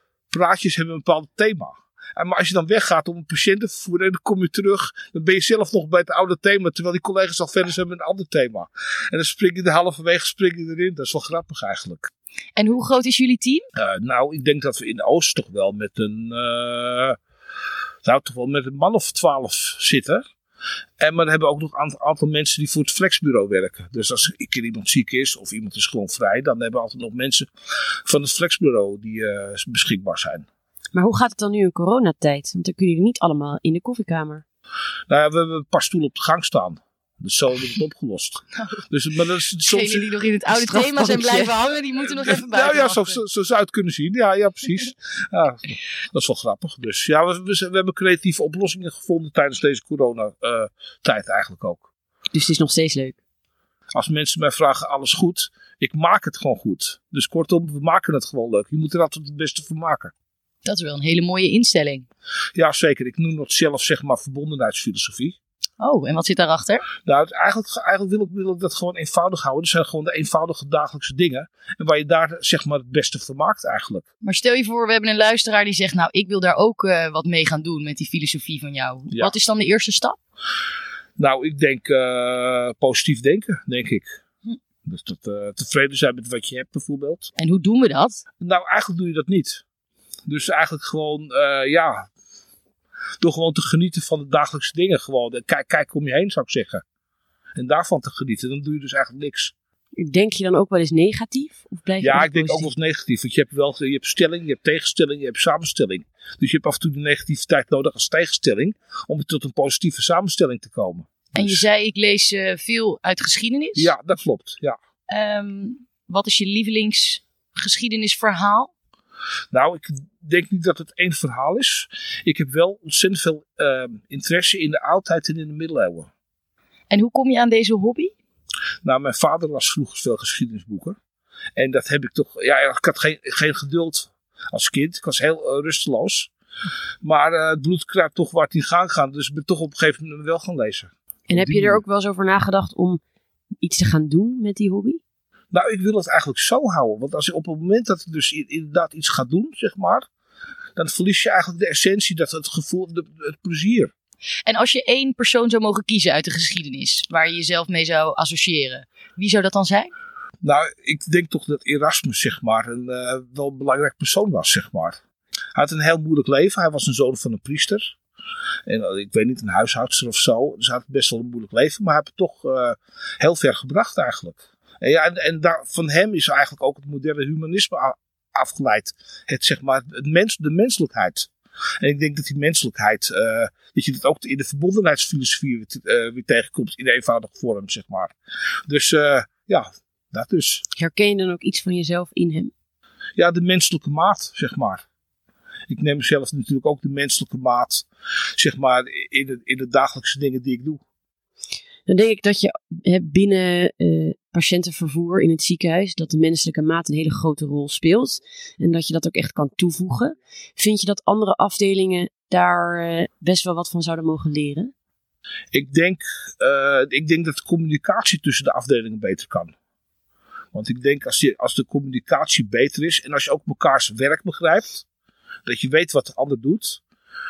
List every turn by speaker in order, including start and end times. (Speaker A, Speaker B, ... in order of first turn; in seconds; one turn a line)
Speaker A: 0.3-12.1
Speaker B: 12.6-13.6
Speaker A: 13.7-17.2
Speaker A: 18.0-20.2
Speaker A: 21.0-30.5
Speaker C: 30.9-34.4
Speaker A: 35.1-40.1
Speaker B: 39.6-43.2
Speaker C: 40.5-41.7
Speaker A: 42.0-51.9
Speaker C: 52.3-53.2
Speaker A: 53.9-60.1
Speaker B: 60.6-62.0
Speaker A: 62.5-65.4
Speaker B: 65.8-66.9
Speaker A: 67.0-74.0
Speaker B: 74.2-80.2
Speaker A: 81.2-84.2
Speaker A: 84.8-87.3
Speaker B: 87.4-88.2
Speaker A: 88.4-89.6
Speaker A: 90.2-92.1
Speaker A: 93.2-96.8
Speaker A: 97.5-99.5
Speaker C: 100.0-102.7
Speaker A: 102.0-111.6
Speaker B: 111.3-113.9
Speaker A: 113.8-114.8
Speaker B: 115.1-118.7
Speaker A: 119.5-126.1
Speaker B: 126.9-128.1
Speaker A: 128.8-131.0
Speaker A: 131.6-136.3
Speaker A: 137.0-141.8
Speaker C: 141.3-143.0
Speaker C: 143.6-145.0
Speaker A: 145.5-150.1
Speaker A: 150.8-153.9
Speaker B: 154.4-159.9
Speaker A: 160.4-165.0
Speaker A: 165.5-167.9
Speaker A: 168.7-181.3
Speaker A: 181.8-188.1
Speaker A: 188.7-190.6
Speaker C: 190.7-192.5
Speaker A: 193.2-194.8
Speaker A: 195.7-197.8
Speaker A: 198.4-200.8
Speaker C: 201.9-214.7
Speaker A: 215.5-219.5
Speaker A: 220.5-224.8
Speaker A: 225.4-226.8